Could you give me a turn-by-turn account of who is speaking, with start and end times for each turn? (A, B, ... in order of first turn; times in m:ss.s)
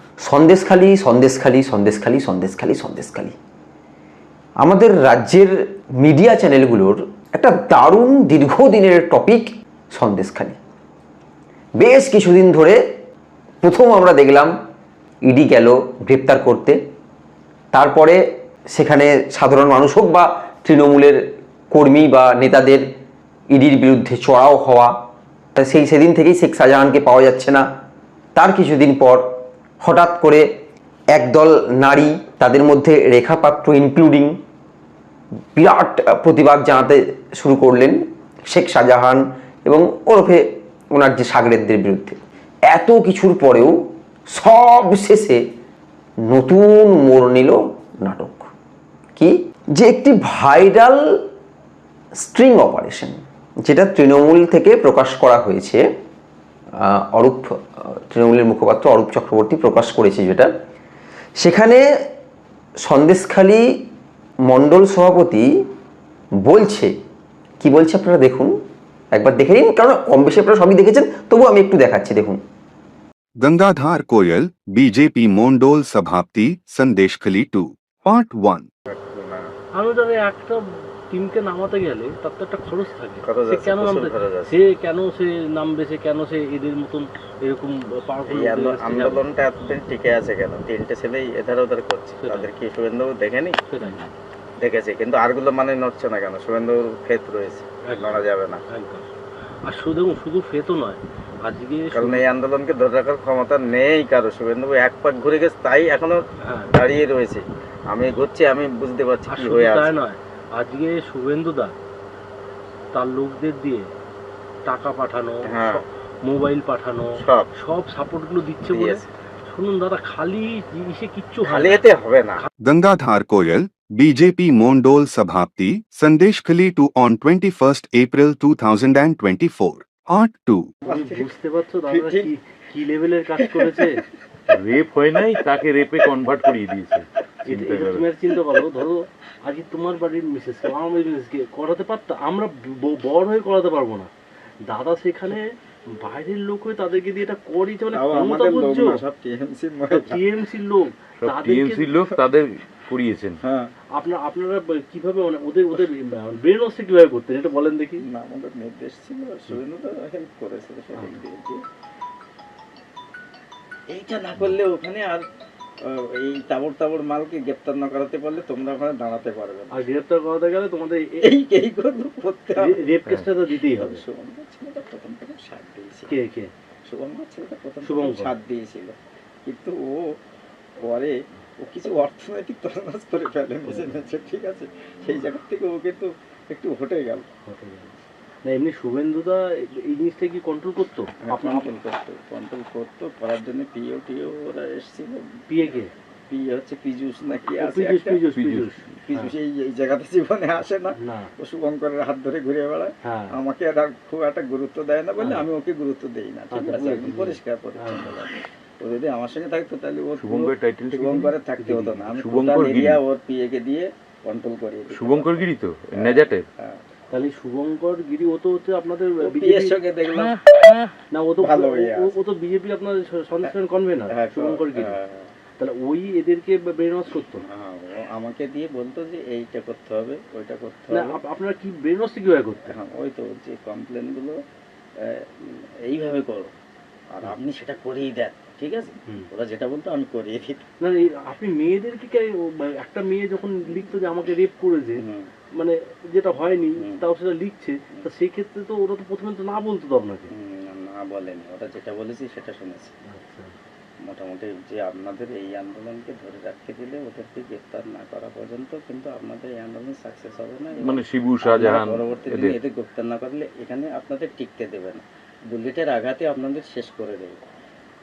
0:00.2-0:03.3 A
0:04.6-0:10.6 A
0:11.8-0:12.8 A
0:13.6-0:14.5 A
0:15.2-0:16.8 A
0:17.7-0:18.2 A
0:18.7-0:21.2 A
0:21.7-0:22.8 A
0:23.5-0:24.9 A
0:25.5-0:27.6 A
0:28.3-0:29.2 A
0:29.8-0:30.4 A
0:31.1-0:34.3 A
0:35.5-0:40.4 A
0:40.9-0:42.2 A
0:42.7-0:43.7 A
0:44.3-0:45.4 A
0:46.3-0:48.5 A
0:49.2-0:51.0 A
0:52.2-0:55.8 A
0:56.8-1:00.5 A
1:01.4-1:01.8 A
1:02.8-1:03.6 A
1:04.5-1:05.5 A
1:06.4-1:06.9 A
1:07.6-1:08.5 A
1:09.1-1:12.4 A
1:13.4-1:18.7 B
1:18.9-1:19.5 C
1:19.8-1:29.2 D
1:23.2-1:24.6 C
1:28.3-1:33.9 C
1:33.7-1:34.0 D
1:34.6-1:38.6 C
1:37.8-1:39.0 D
1:39.6-1:42.2 D
1:41.9-1:50.0 C
1:46.4-1:46.7 D
1:49.3-1:51.8 D
1:52.9-1:53.9 D
1:54.6-2:02.4 D
1:55.4-1:55.8 C
1:57.1-1:57.5 C
1:58.7-1:59.0 C
2:01.5-2:02.4 C
2:02.6-2:10.7 B
2:10.8-2:11.3 C
2:10.8-2:14.0 D
2:11.9-2:12.3 C
2:13.4-2:13.8 C
2:14.5-2:18.1 E
2:17.4-2:24.1 D
2:18.3-2:18.7 C
2:24.6-2:29.0 D
2:27.9-2:30.2 C
2:29.9-2:31.9 D
2:31.2-2:33.4 E
2:33.4-2:33.7 C
2:33.9-2:38.0 D
2:38.1-2:41.6 C
2:43.9-2:45.2 C
2:45.8-2:49.8 C
2:49.7-2:51.3 D
2:51.2-2:52.8 C
2:52.6-2:54.0 D
2:53.5-2:56.2 C
2:56.1-2:56.5 D
2:56.8-3:00.0 C
2:57.8-2:58.3 D
3:00.8-3:07.2 C
3:03.7-3:03.9 D
3:07.5-3:07.9 D
3:08.4-3:11.7 D
3:11.2-3:18.2 C
3:15.5-3:15.9 D
3:17.5-3:19.3 D
3:18.3-3:18.8 E
3:19.0-3:36.8 C
3:21.0-3:21.3 D
3:23.0-3:23.4 D
3:25.2-3:25.4 D
3:26.5-3:28.1 D
3:30.2-3:33.0 E
3:34.9-3:36.4 E
3:37.1-3:39.8 D
3:39.2-3:40.4 C
3:41.1-3:45.0 D
3:41.4-3:42.1 C
3:44.1-3:45.3 C
3:45.6-3:47.4 D
3:47.3-3:51.2 C
3:50.9-3:52.8 D
3:52.7-3:54.4 C
3:55.0-3:56.5 C
3:57.1-4:00.6 C
4:00.8-4:10.3 D
4:05.0-4:05.3 C
4:06.8-4:07.0 C
4:10.3-4:12.9 C
4:13.1-4:13.5 D
4:14.0-4:27.4 C
4:20.8-4:22.6 E